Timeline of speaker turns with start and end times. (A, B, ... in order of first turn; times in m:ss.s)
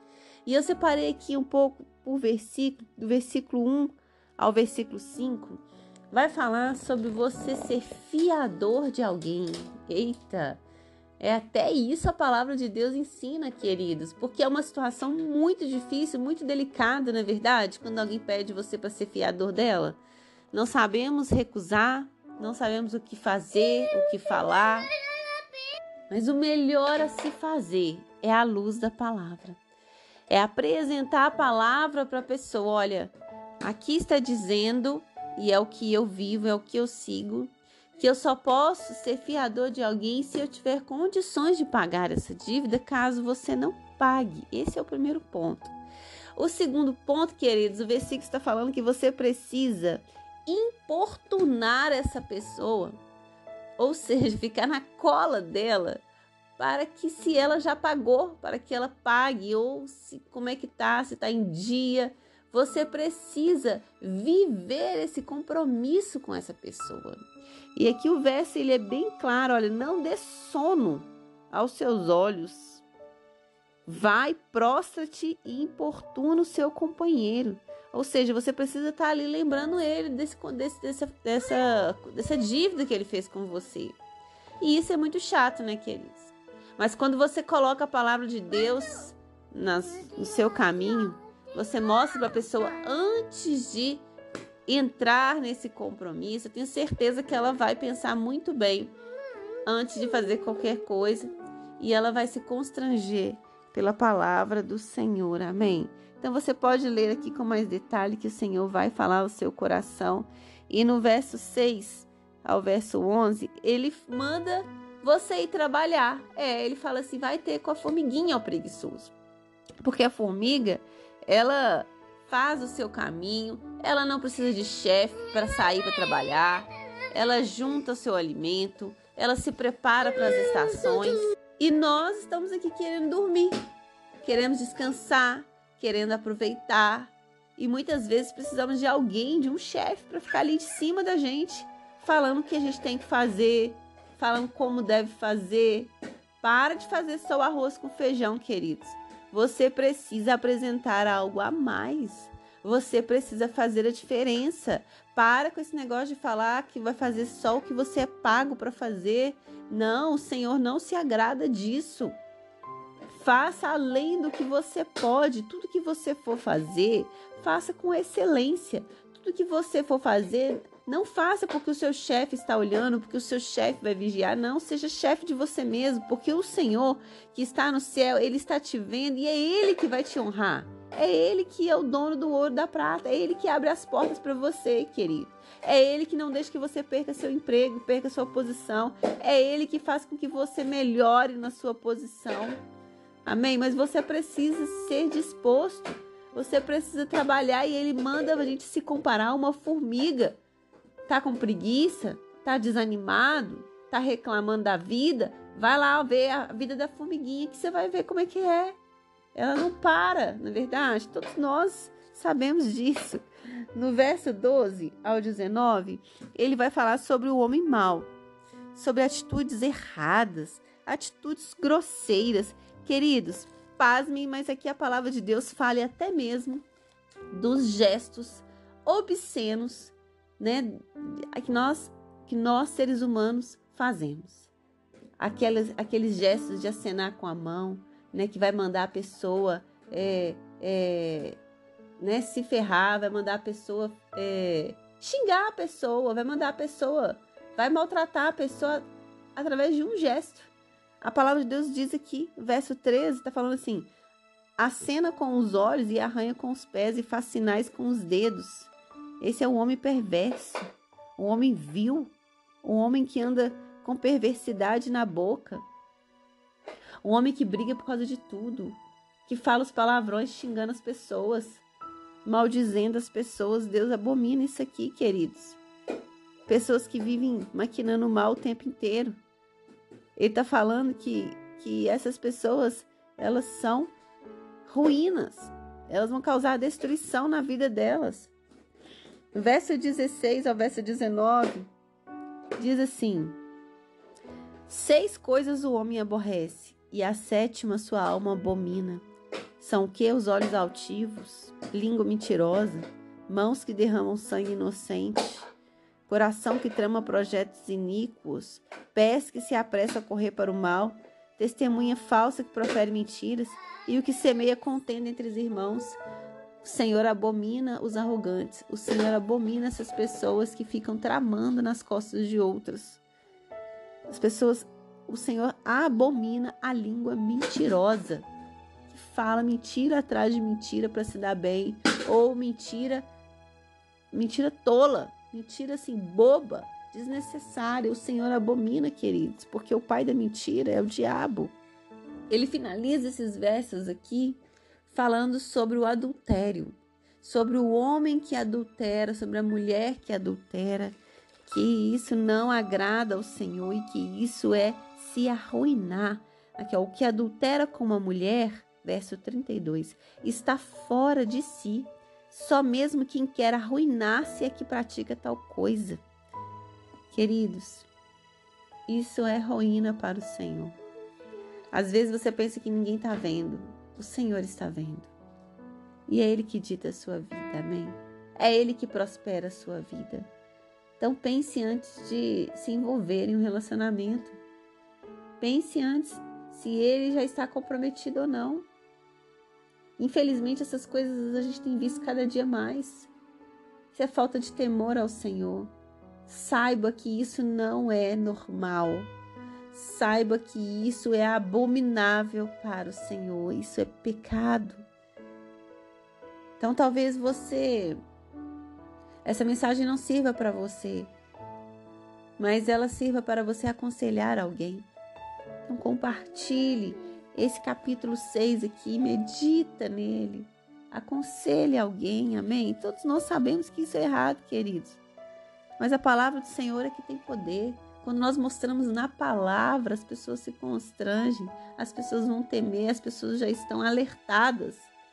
0:00.4-0:10.6 A
0:11.2-0:20.0 A
0:20.5-0:24.9 A
0:26.1-0:29.6 A
0:30.3-0:45.7 A
0:46.4-0:53.0 A
0:53.8-0:56.0 A
0:56.6-1:12.8 A
1:13.9-1:24.0 A
1:24.6-1:34.0 A
1:34.7-1:38.9 A
1:39.7-1:59.1 A
1:59.8-2:13.6 A
2:14.2-2:42.2 A
2:43.1-3:12.6 A
3:13.2-3:20.4 A
3:21.1-3:28.8 A
3:29.4-3:38.1 A
3:38.7-3:46.6 A
3:47.3-3:54.5 A
3:55.2-4:01.4 A
4:02.0-4:08.8 A
4:09.4-4:13.9 A
4:14.6-4:25.6 A
4:27.0-4:31.6 A
4:32.2-4:35.6 A
4:36.5-4:39.2 A
4:40.2-4:43.9 A
4:44.7-4:48.3 A
4:49.3-4:51.7 A
4:52.6-4:53.4 A
4:54.7-4:59.0 A
4:59.6-5:05.5 A
5:06.1-5:16.0 A
5:16.6-5:23.0 A
5:24.1-5:28.3 A
5:28.9-5:33.0 A
5:34.1-5:41.6 A
5:42.3-6:06.0 A
6:07.1-6:07.9 A
6:08.9-6:10.8 A
6:11.7-6:15.1 A
6:16.1-6:20.3 A
6:21.0-6:24.4 A
6:25.4-6:28.7 A
6:30.0-6:33.1 A
6:33.9-6:35.7 A
6:36.3-6:39.1 A
6:39.7-6:44.8 A
6:46.6-6:48.0 A
6:49.2-6:51.1 A
6:52.4-6:54.9 A
6:55.7-7:05.0 A
7:05.8-7:14.9 A